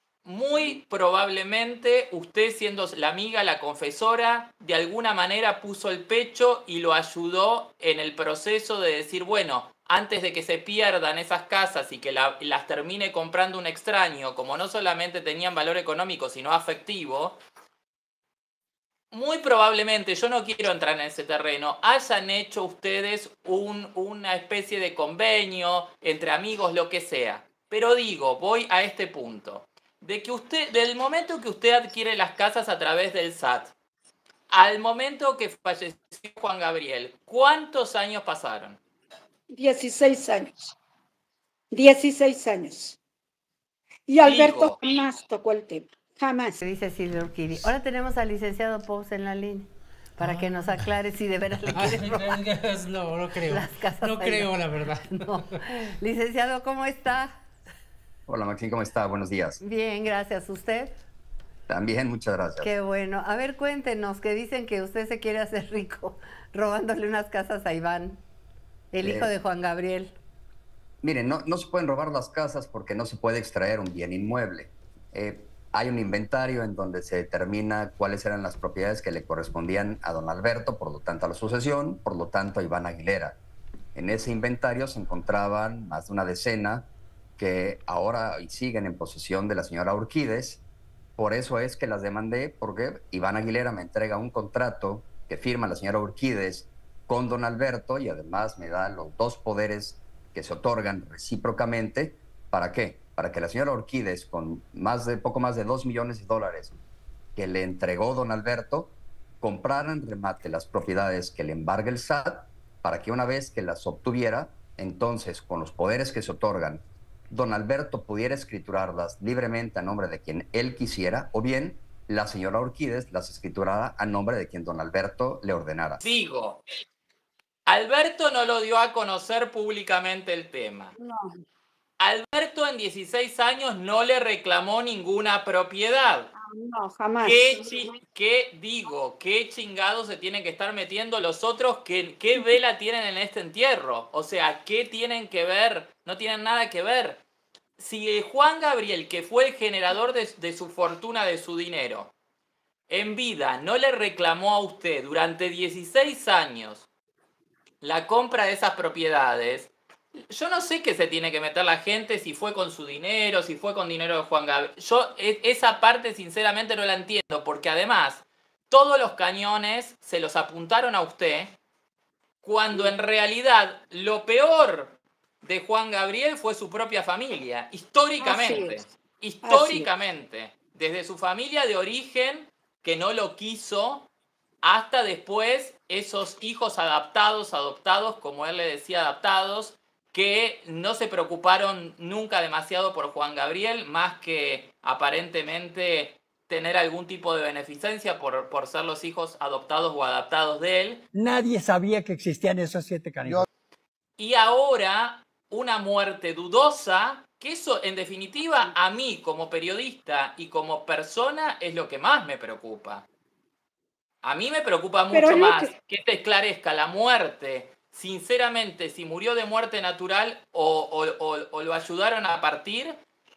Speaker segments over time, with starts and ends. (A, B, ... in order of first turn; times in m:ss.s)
0:00.2-0:17.4 A
0:19.1-0:33.7 A
0:34.5-0:38.8 A
0:39.5-0:40.8 B
0:41.7-0:43.0 B
0:44.1-0:46.6 B
0:44.2-0:44.8 A
0:46.6-0:52.4 C
0:50.2-0:50.9 D
0:51.7-0:55.4 D
0:53.5-0:57.4 C
0:58.3-0:59.6 E
0:59.6-1:00.9 C
1:01.7-1:02.7 E
1:02.6-1:08.2 C
1:08.9-1:10.1 C
1:09.0-1:09.3 E
1:11.0-1:23.4 E
1:24.0-1:30.6 E
1:31.2-1:46.8 E
1:47.4-2:06.0 E
2:06.0-2:06.6 A
2:07.7-2:11.0 A
2:11.0-2:11.4 B
2:12.0-2:16.3 A
2:16.3-2:17.8 B
2:17.2-2:27.2 A
2:27.8-2:32.1 A
2:32.9-2:36.9 A
2:37.8-2:51.6 A
2:52.4-3:04.1 A
2:58.2-2:58.8 B
2:59.4-2:59.9 B
3:04.6-3:21.0 A
3:21.1-3:23.5 F
3:24.2-3:33.1 A
3:34.2-3:43.0 A
3:35.1-3:35.7 B